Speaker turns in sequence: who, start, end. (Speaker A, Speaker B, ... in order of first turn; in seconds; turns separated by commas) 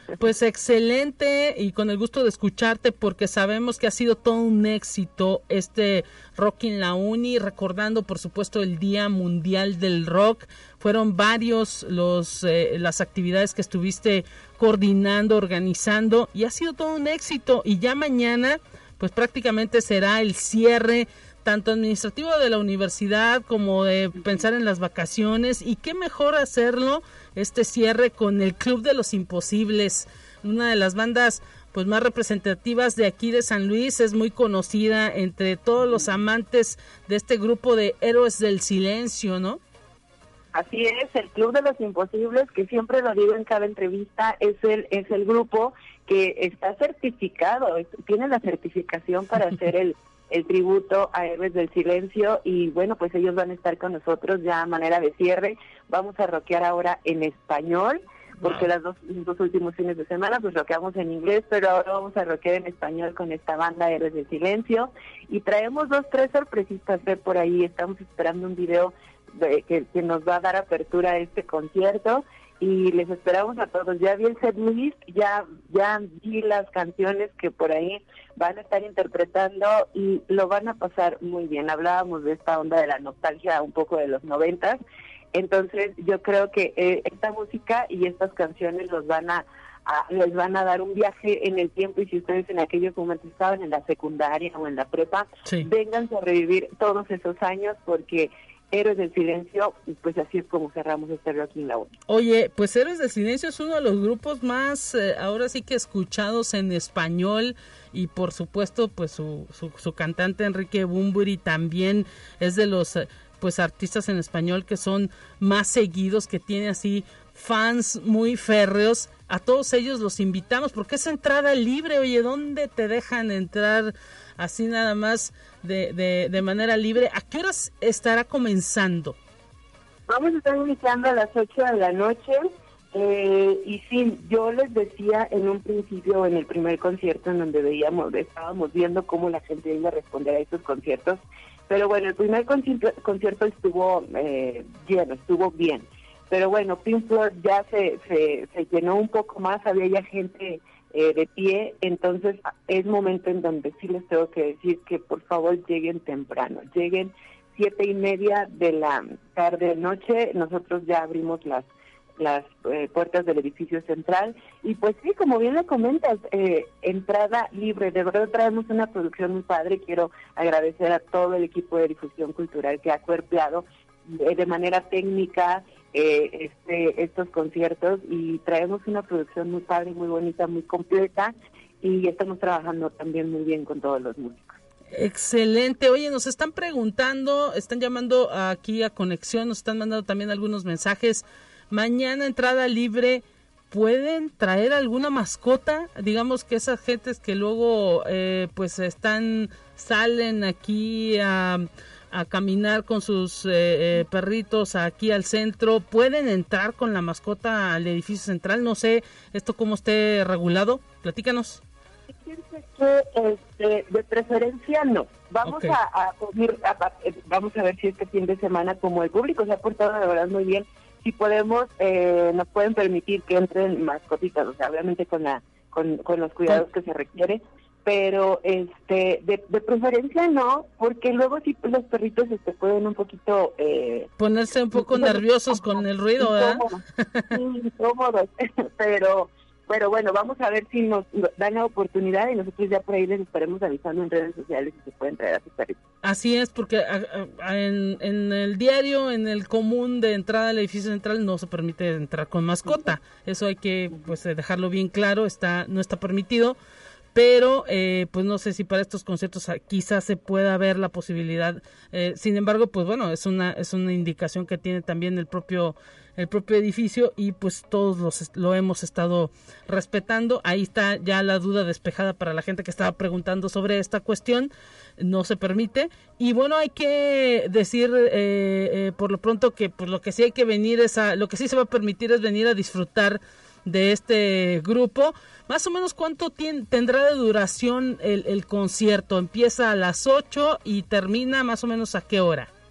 Speaker A: 0.2-39.6, Speaker B: 40.5-84.8, Speaker A: 58.4-58.7, Speaker B: 85.3-101.9, Speaker A: 95.5-95.7, Speaker A: 102.1-129.2, Speaker B: 130.1-184.6, Speaker A: 184.9-211.6, Speaker B: 212.1-234.1, Speaker A: 215.4-215.8, Speaker A: 234.2-237.4, Speaker B: 234.7-245.8, Speaker A: 246.0-256.6, Speaker A: 257.1-292.5